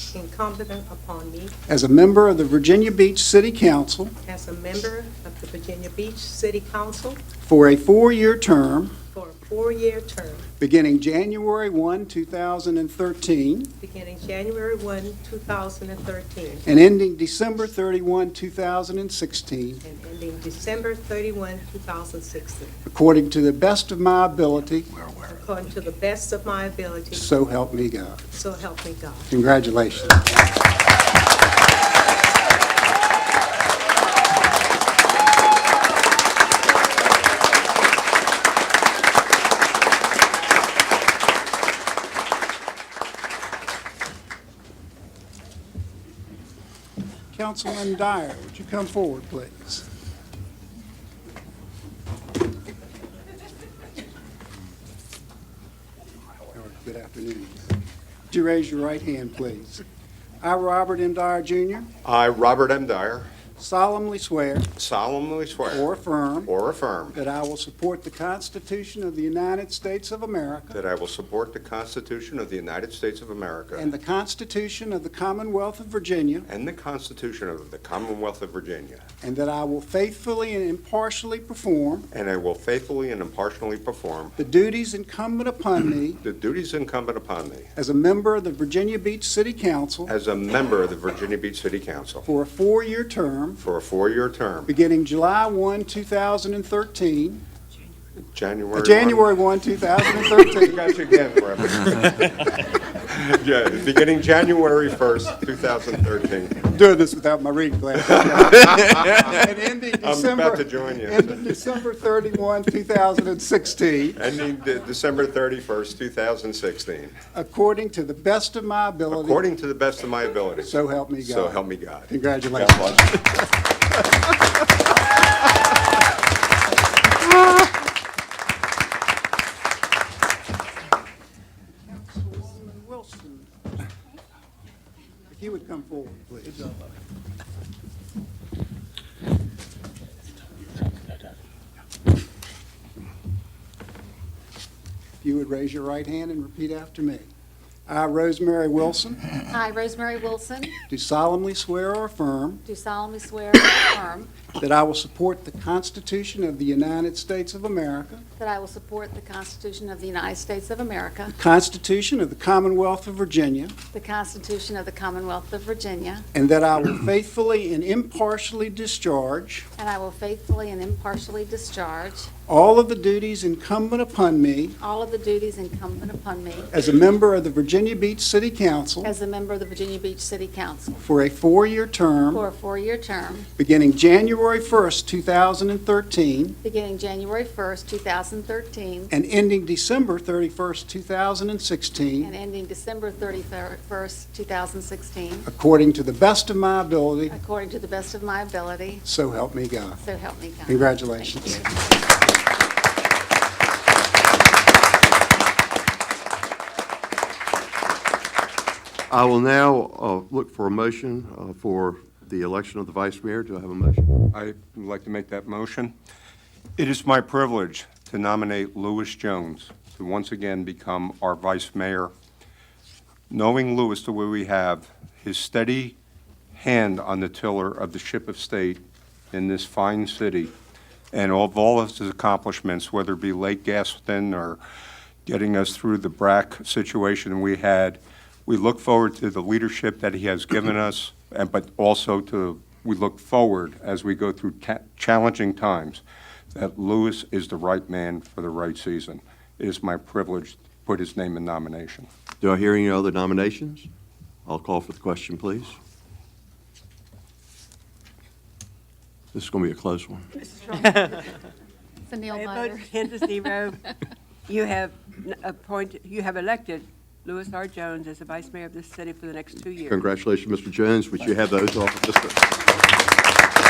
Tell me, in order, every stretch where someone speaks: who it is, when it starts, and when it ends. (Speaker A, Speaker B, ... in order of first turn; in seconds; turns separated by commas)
Speaker A: 0.1-1.5, Speaker B: 1.7-4.1, Speaker A: 4.3-7.2, Speaker B: 7.4-8.9, Speaker A: 9.1-10.5, Speaker B: 10.6-13.7, Speaker A: 13.8-16.7, Speaker B: 16.6-19.8, Speaker A: 19.8-22.8, Speaker B: 22.9-25.0, Speaker A: 25.2-27.3, Speaker B: 27.1-28.2, Speaker A: 28.3-29.3, Speaker B: 29.3-30.2, Speaker B: 47.3-49.9, Speaker B: 56.5-57.6, Speaker B: 58.3-59.8, Speaker B: 60.4-61.9, Speaker C: 62.0-63.3, Speaker B: 63.6-64.7, Speaker C: 64.8-65.9, Speaker B: 65.7-66.5, Speaker C: 66.5-67.2, Speaker B: 67.1-70.8, Speaker C: 70.7-73.9, Speaker B: 73.7-76.5, Speaker C: 76.5-79.1, Speaker B: 79.2-82.1, Speaker C: 82.1-84.4, Speaker B: 84.4-86.2, Speaker C: 86.2-87.7, Speaker B: 87.8-90.1, Speaker C: 90.1-92.2, Speaker B: 92.2-93.6, Speaker C: 93.6-94.7, Speaker B: 94.7-97.4, Speaker C: 98.3-99.3, Speaker B: 98.7-101.0, Speaker C: 100.3-106.6, Speaker B: 106.6-114.2, Speaker C: 108.8-109.2, Speaker C: 110.0-111.4, Speaker C: 114.2-117.2, Speaker B: 117.3-119.5, Speaker C: 119.1-123.2, Speaker B: 120.6-123.2, Speaker B: 131.8-133.5, Speaker B: 135.3-136.8, Speaker B: 145.2-147.3, Speaker B: 147.9-149.3, Speaker D: 149.5-150.8, Speaker B: 150.8-152.6, Speaker D: 152.7-154.5, Speaker B: 154.5-158.2, Speaker D: 158.4-161.3, Speaker B: 161.4-163.8, Speaker D: 163.9-166.2, Speaker B: 166.3-169.7, Speaker D: 169.8-172.3, Speaker B: 172.5-174.8, Speaker D: 174.8-176.7, Speaker B: 176.7-179.1, Speaker D: 179.0-181.0, Speaker B: 181.0-182.4, Speaker D: 182.3-183.5, Speaker B: 183.6-186.6, Speaker D: 186.6-189.1, Speaker B: 189.1-192.3, Speaker D: 192.2-195.5, Speaker B: 195.5-197.4, Speaker D: 197.3-199.0, Speaker B: 199.0-200.0, Speaker D: 200.0-201.3, Speaker B: 200.7-201.8, Speaker E: 209.1-214.1, Speaker C: 214.3-215.9, Speaker C: 216.8-222.1, Speaker C: 223.3-226.0, Speaker C: 226.5-230.5, Speaker C: 231.1-234.6, Speaker C: 235.2-252.1, Speaker E: 252.4-253.9, Speaker E: 254.5-255.8, Speaker E: 259.3-260.3, Speaker F: 260.7-261.2, Speaker D: 262.1-263.3, Speaker F: 262.3-263.8, Speaker F: 264.5-270.0, Speaker E: 269.8-272.4